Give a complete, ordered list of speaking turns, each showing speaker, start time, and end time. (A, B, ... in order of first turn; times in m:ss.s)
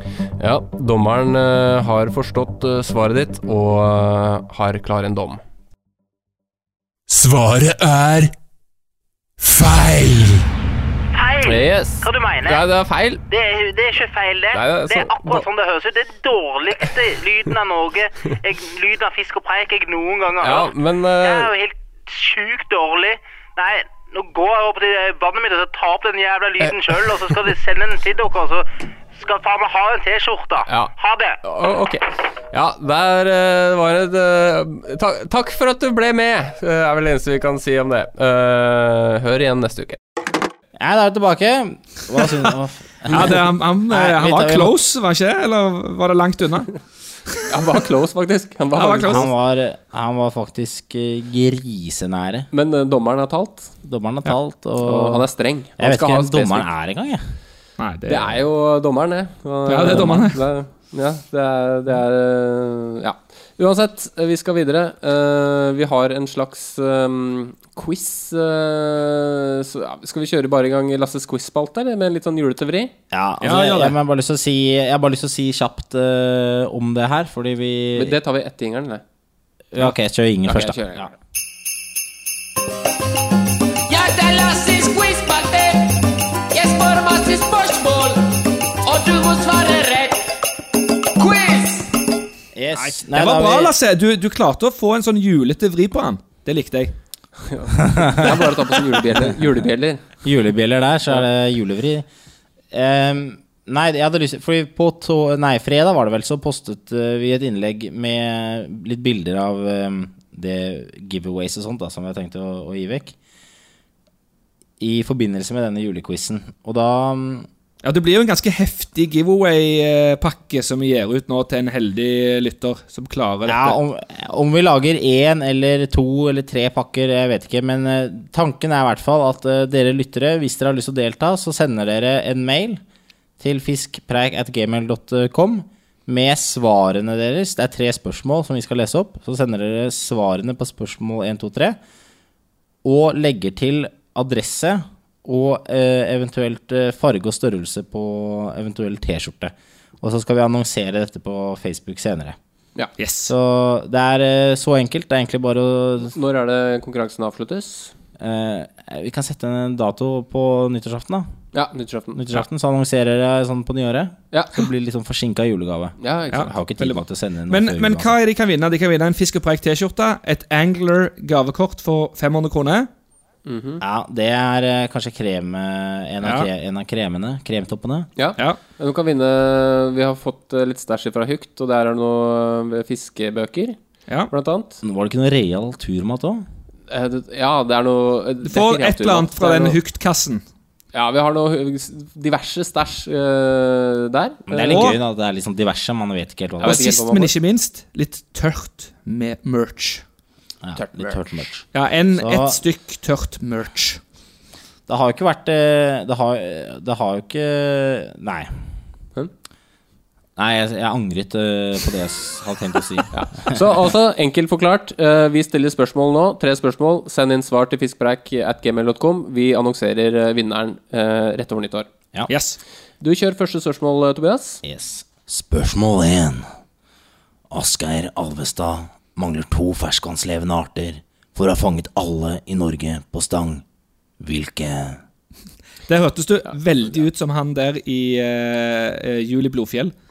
0:00.4-0:05.4 A
0:07.1-0:08.3 B
0:09.4-0:10.4 B
0:11.1-0:12.7 C
0:11.4-0:13.2 A
0:13.3-0:31.4 C
0:14.5-0:15.5 A
0:20.4-0:21.5 A
0:30.7-0:40.0 A
0:40.8-0:44.8 D
0:43.1-0:46.8 E
0:47.5-0:49.3 A
0:48.8-0:49.3 E
0:49.1-0:52.5 D
0:52.5-0:53.7 A
0:53.8-0:55.3 D
0:54.8-0:56.7 A
0:55.8-0:57.3 D
0:57.8-0:58.4 E
0:58.1-1:12.9 A
0:59.7-1:00.4 E
1:13.1-1:18.2 D
1:13.4-1:14.0 E
1:18.0-1:19.0 A
1:19.7-1:21.1 D
1:20.4-1:21.1 A
1:23.9-1:30.4 B
1:31.2-1:32.0 B
1:32.6-1:33.8 D
1:32.8-1:37.0 E
1:37.4-1:40.1 A
1:37.9-1:38.4 D
1:40.2-1:42.1 D
1:42.7-1:53.2 D
1:54.8-1:57.5 D
1:57.8-2:03.8 E
2:03.5-2:12.8 D
2:13.4-2:21.8 D
2:22.8-2:32.4 D
2:33.0-2:33.3 E
2:33.3-2:36.2 D
2:36.0-2:37.9 A
2:38.2-2:41.3 D
2:41.5-2:42.2 A
2:42.2-2:48.1 D
2:46.0-2:46.5 A
2:46.3-2:52.9 E
2:53.5-2:53.8 A
2:53.8-2:58.1 D
2:56.2-2:56.5 E
2:58.2-3:03.8 A
3:04.3-3:04.8 A
3:04.8-3:06.4 D
3:06.9-3:09.8 A
3:08.4-3:10.4 E
3:10.9-3:14.9 A
3:14.5-3:17.0 D
3:14.7-3:15.0 E
3:16.6-3:17.3 A
3:16.6-3:20.0 E
3:20.6-3:22.6 D
3:20.8-3:21.4 A
3:21.7-3:24.0 E
3:24.9-3:28.5 D
3:30.4-3:33.6 D
3:33.1-3:41.9 A
3:42.3-3:42.6 E
3:43.0-3:44.6 A
3:44.6-3:46.5 D
3:47.5-3:53.6 D
3:54.2-3:55.0 D
3:55.9-3:59.9 E